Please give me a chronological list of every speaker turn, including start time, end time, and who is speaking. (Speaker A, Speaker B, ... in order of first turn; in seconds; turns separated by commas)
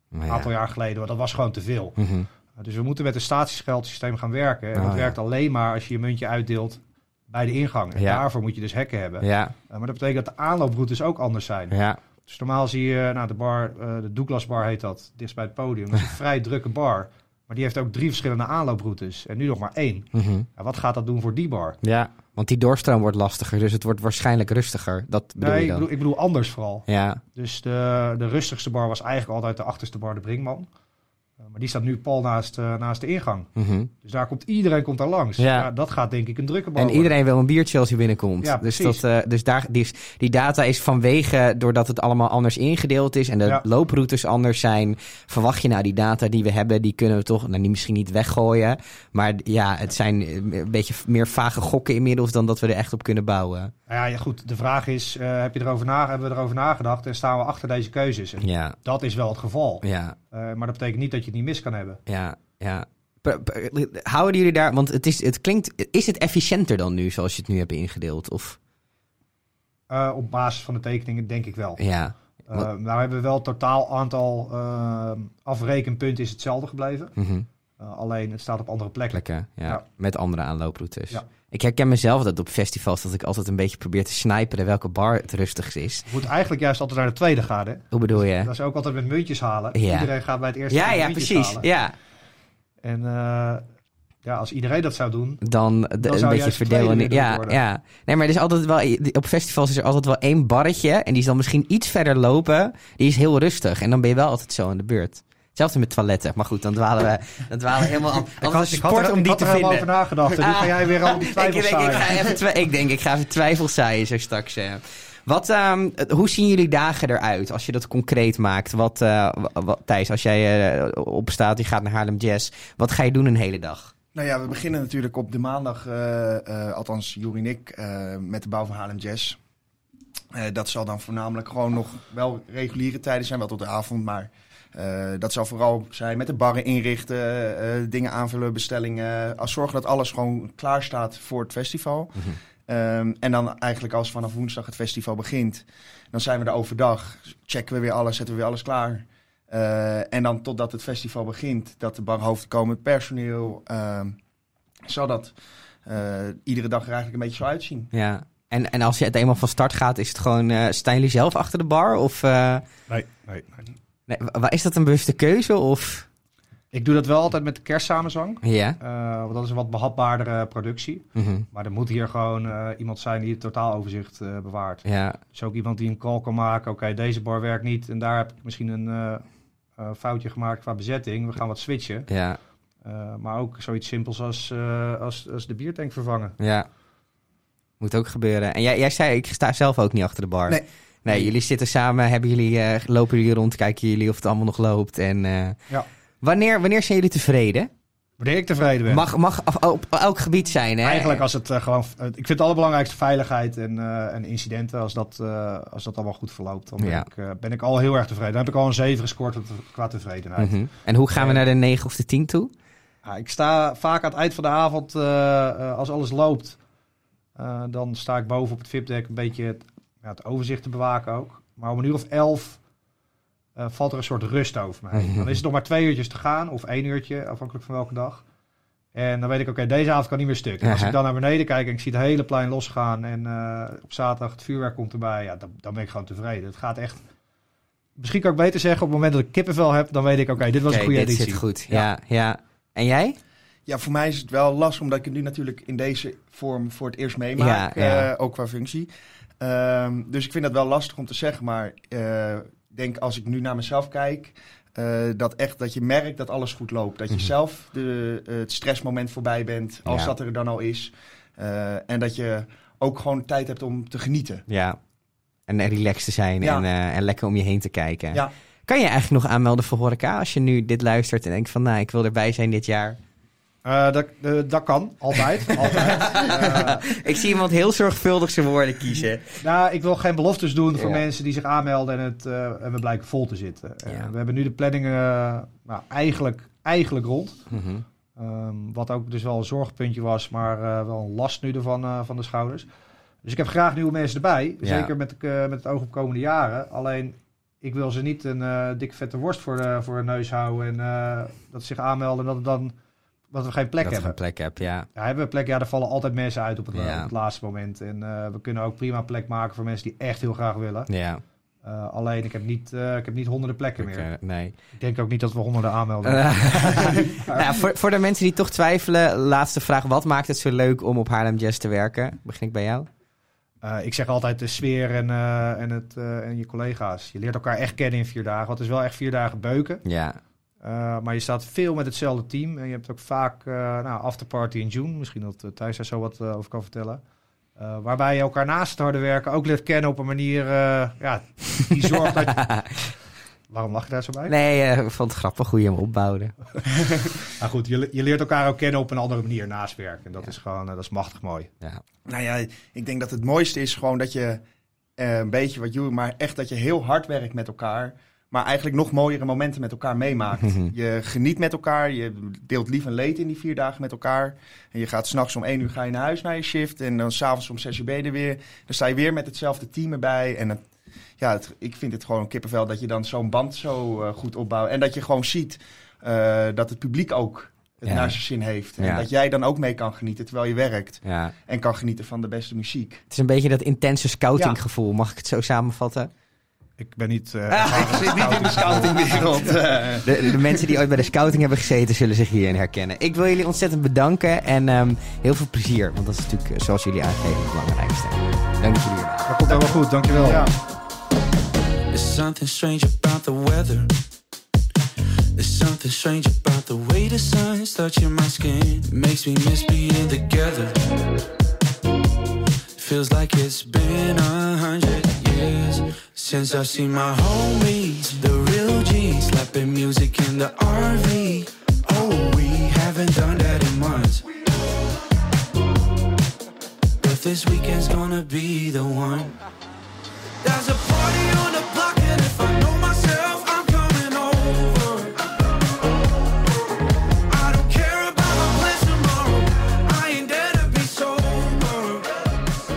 Speaker A: 0.1-0.5, Speaker B: 0.3-2.0, Speaker A: 2.0-2.3, Speaker B: 2.5-11.7, Speaker A: 4.8-5.1, Speaker A: 8.0-8.2, Speaker A: 9.2-9.5, Speaker A: 11.7-12.0, Speaker B: 12.3-21.8, Speaker A: 20.1-20.4, Speaker A: 21.8-25.9, Speaker B: 25.4-30.7, Speaker A: 26.9-27.2, Speaker B: 31.4-33.5, Speaker A: 33.5-33.9, Speaker B: 34.0-37.1, Speaker A: 35.4-35.7, Speaker A: 36.8-53.7, Speaker B: 38.4-39.0, Speaker B: 53.9-62.0, Speaker A: 58.4-58.8, Speaker A: 59.8-60.1, Speaker A: 62.1-68.6, Speaker B: 69.9-71.8, Speaker A: 71.8-72.7, Speaker B: 72.4-77.1, Speaker A: 77.2-77.5, Speaker B: 77.8-79.8, Speaker A: 79.1-86.1, Speaker B: 86.0-91.7, Speaker A: 87.9-88.5, Speaker A: 89.7-90.1, Speaker A: 90.7-91.9, Speaker B: 92.8-93.6, Speaker B: 94.2-95.4, Speaker A: 95.4-123.9, Speaker B: 96.0-97.6, Speaker B: 108.4-112.2, Speaker C: 124.1-129.4, Speaker C: 130.3-154.1, Speaker C: 154.9-155.3, Speaker C: 155.8-157.9, Speaker A: 157.9-162.6, Speaker B: 162.9-163.7, Speaker A: 164.1-166.1, Speaker B: 166.7-179.2, Speaker A: 168.4-168.8, Speaker A: 171.2-171.4, Speaker A: 174.8-175.2, Speaker B: 179.8-182.1, Speaker A: 182.1-182.4, Speaker B: 182.8-186.3, Speaker A: 186.4-186.7, Speaker A: 187.8-195.6, Speaker C: 190.5-191.3, Speaker A: 196.2-197.7, Speaker B: 198.2-199.1, Speaker A: 198.9-201.2, Speaker B: 200.8-210.6, Speaker A: 206.8-207.1, Speaker A: 210.4-212.5, Speaker B: 211.1-211.4, Speaker B: 213.0-216.6, Speaker B: 217.3-222.6, Speaker B: 223.6-228.2, Speaker A: 224.9-225.4, Speaker B: 228.9-237.0, Speaker A: 230.6-230.9, Speaker B: 238.0-241.9, Speaker A: 240.7-243.2, Speaker C: 243.7-248.9, Speaker A: 247.4-248.1, Speaker C: 249.4-264.4, Speaker A: 259.9-260.1, Speaker A: 264.5-264.8, Speaker A: 265.5-273.0, Speaker C: 266.4-266.6, Speaker B: 273.6-276.8, Speaker A: 275.6-279.4, Speaker B: 279.4-287.4, Speaker A: 280.7-281.0, Speaker A: 287.5-287.8, Speaker B: 288.1-292.7, Speaker B: 293.2-302.7, Speaker A: 294.6-294.9, Speaker B: 303.3-304.2, Speaker A: 303.8-304.9, Speaker B: 304.9-310.9, Speaker A: 306.7-307.1, Speaker A: 310.9-311.2, Speaker B: 311.6-314.1, Speaker A: 313.8-314.5, Speaker B: 314.8-317.4, Speaker A: 316.0-322.9, Speaker B: 323.6-329.8, Speaker A: 329.8-330.2, Speaker B: 330.6-337.0, Speaker B: 337.6-342.9, Speaker A: 342.2-342.6, Speaker B: 343.5-344.3, Speaker A: 344.3-346.3, Speaker B: 347.2-351.5, Speaker C: 352.1-354.4, Speaker C: 355.0-370.6, Speaker A: 360.4-360.7, Speaker C: 371.2-383.0, Speaker A: 377.9-378.2, Speaker A: 378.8-379.1, Speaker A: 381.0-381.3, Speaker A: 383.1-386.1, Speaker B: 386.8-389.5, Speaker A: 387.5-389.3, Speaker C: 387.6-390.6, Speaker A: 390.0-399.8, Speaker B: 399.3-400.5, Speaker D: 401.9-403.9, Speaker D: 405.3-410.9, Speaker D: 412.7-424.3, Speaker D: 427.0-429.4, Speaker D: 430.4-435.9, Speaker D: 437.3-442.4